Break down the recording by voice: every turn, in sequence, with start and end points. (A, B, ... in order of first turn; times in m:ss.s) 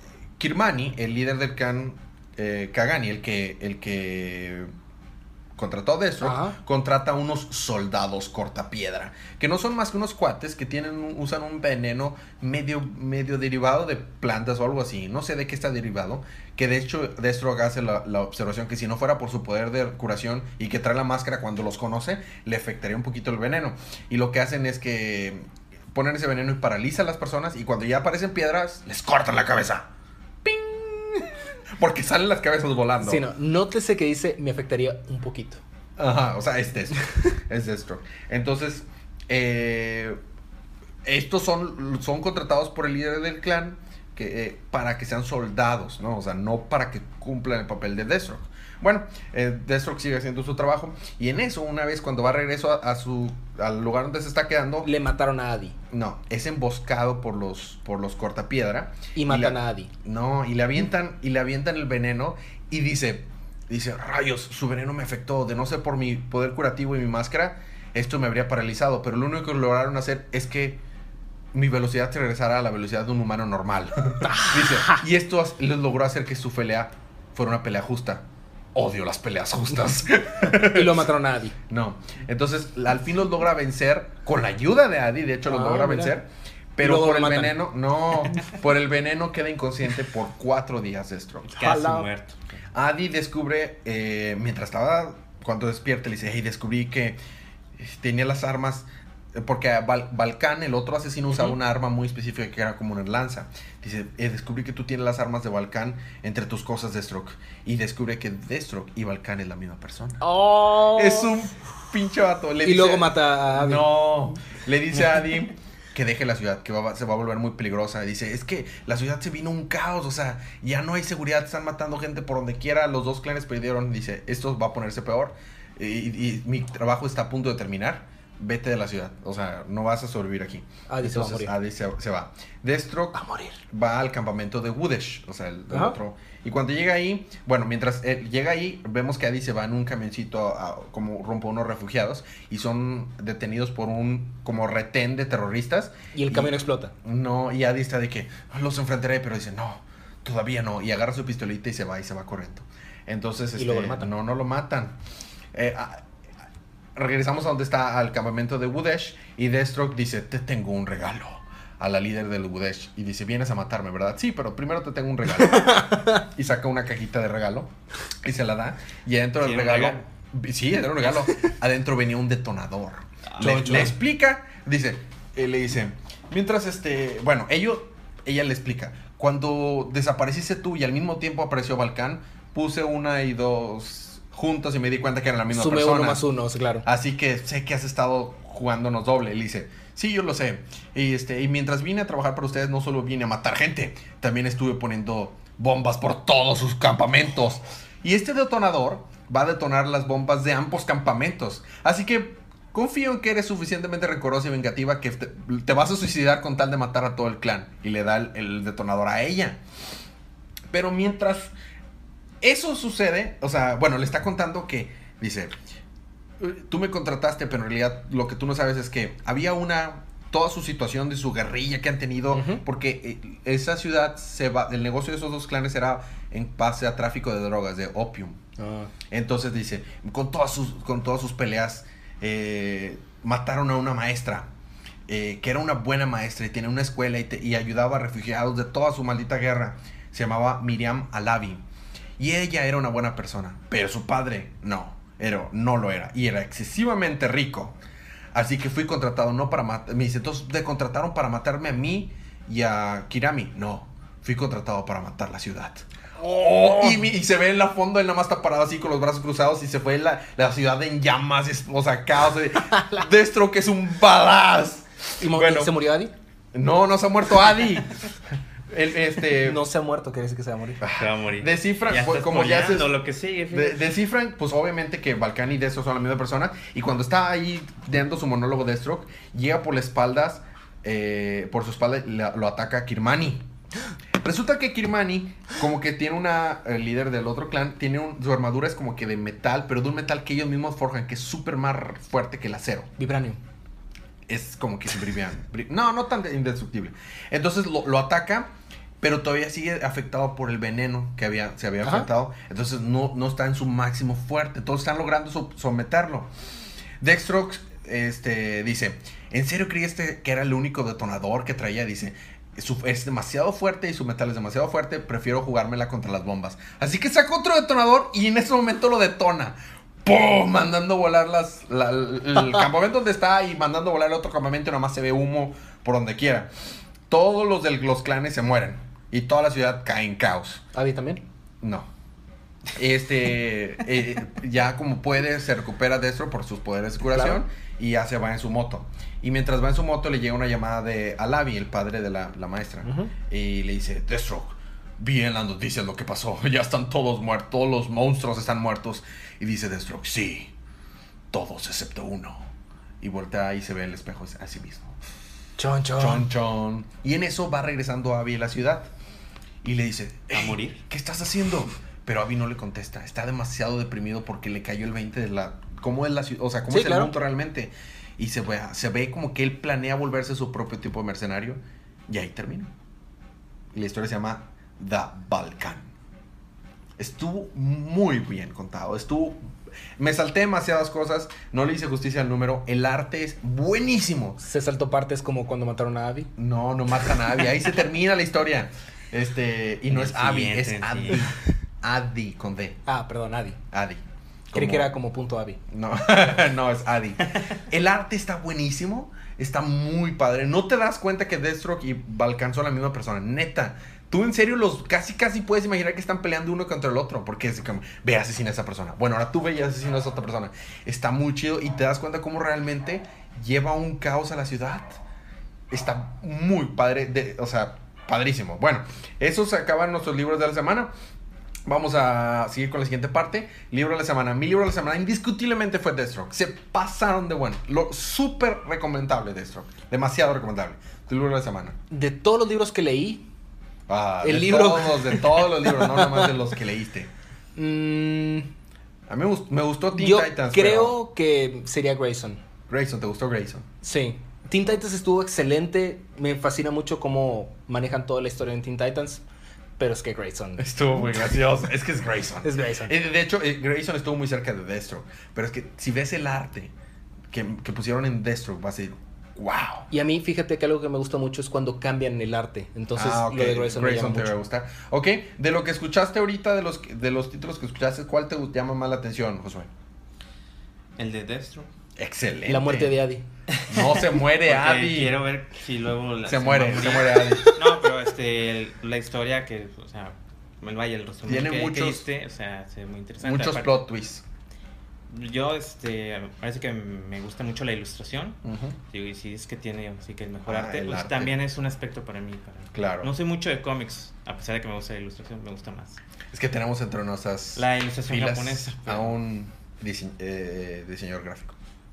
0:00.4-0:04.7 A
0:05.6-0:29.9 A
0:06.2-0:06.6 B
0:30.4-0:33.2 A
0:33.0-0:35.6 B
0:36.0-0:40.2 A
0:41.0-0:54.9 A
0:54.8-0:55.8 B
0:55.9-1:10.8 A
0:59.2-0:59.9 B
1:11.5-1:21.0 A
1:14.2-1:15.0 B
1:20.5-1:21.6 B
1:21.7-1:31.5 A
1:25.5-1:26.2 B
1:26.8-1:27.6 B
1:31.5-1:32.4 C
1:31.6-1:32.1 B
1:32.7-1:37.2 A
1:37.8-1:50.2 A
1:50.2-1:51.3 B
1:50.9-2:35.0 A
1:52.6-1:53.9 B
2:10.9-2:11.6 B
2:13.1-2:13.6 B
2:15.7-2:16.0 B
2:26.1-2:26.9 B
2:33.6-2:34.1 B
2:35.5-2:36.0 A
2:37.0-2:47.7 A
2:45.7-2:46.0 B
2:48.2-3:06.2 A
2:49.4-2:50.0 C
2:53.3-2:53.9 C
2:53.4-2:53.9 B
3:05.5-3:06.9 B
3:06.8-3:29.6 A
3:30.7-3:31.5 A
3:32.4-3:35.6 A
3:36.4-3:48.4 A
3:42.3-3:42.6 B
3:48.6-3:48.9 B
3:49.1-3:54.5 A
3:55.1-4:01.6 A
4:02.2-4:07.8 A
4:08.3-4:25.8 A
4:16.3-4:17.0 B
4:25.2-4:26.1 B
4:26.5-4:28.0 A
4:28.7-4:29.6 A
4:29.4-4:30.8 B
4:30.8-4:32.9 A
4:31.0-4:33.8 C
4:33.5-4:43.4 A
4:44.2-4:52.9 A
4:53.0-4:53.4 B
4:54.3-4:58.5 A
4:59.0-5:06.3 A
5:07.0-5:26.5 A
5:27.1-5:30.6 A
5:30.7-5:31.2 B
5:31.6-5:31.9 A
5:32.8-5:50.5 A
5:37.1-5:37.4 B
5:42.8-5:43.1 B
5:51.3-5:52.5 A
5:53.0-5:54.9 A
5:55.6-5:56.3 B
5:56.0-5:58.9 A
5:59.6-6:12.7 A
6:00.3-6:00.8 C
6:06.7-6:07.1 B
6:13.7-6:15.9 A
6:17.0-6:19.4 A
6:20.0-6:24.4 A
6:24.4-6:26.3 B
6:26.4-6:32.8 A
6:29.9-6:31.3 C
6:32.9-6:33.6 B
6:33.7-6:34.9 A
6:34.5-6:35.6 B
6:35.7-6:55.0 A
6:55.7-7:00.9 A
7:01.7-7:11.8 A
7:11.9-7:13.2 B
7:13.9-7:17.1 A
7:14.2-7:16.3 B
7:17.6-7:18.5 B
7:19.1-7:21.0 A
7:19.9-7:22.4 B
7:22.7-7:23.7 A
7:23.8-7:29.2 B
7:29.8-7:30.7 B
7:30.6-7:36.7 A
7:32.4-7:33.0 B
7:37.3-7:39.9 A
7:39.9-7:44.3 B
7:43.0-7:49.7 A
7:51.0-7:51.7 C
7:52.0-7:53.0 A
7:52.5-7:53.2 B
7:53.6-8:03.8 C
7:53.7-7:55.2 A
7:56.3-7:57.6 A
8:01.3-8:02.1 A
8:03.2-8:04.2 A
8:05.1-8:08.4 C
8:08.4-8:08.8 A
8:08.9-8:16.0 C
8:10.5-8:11.4 A
8:12.7-8:13.1 A
8:16.3-8:21.6 A
8:17.6-8:19.2 C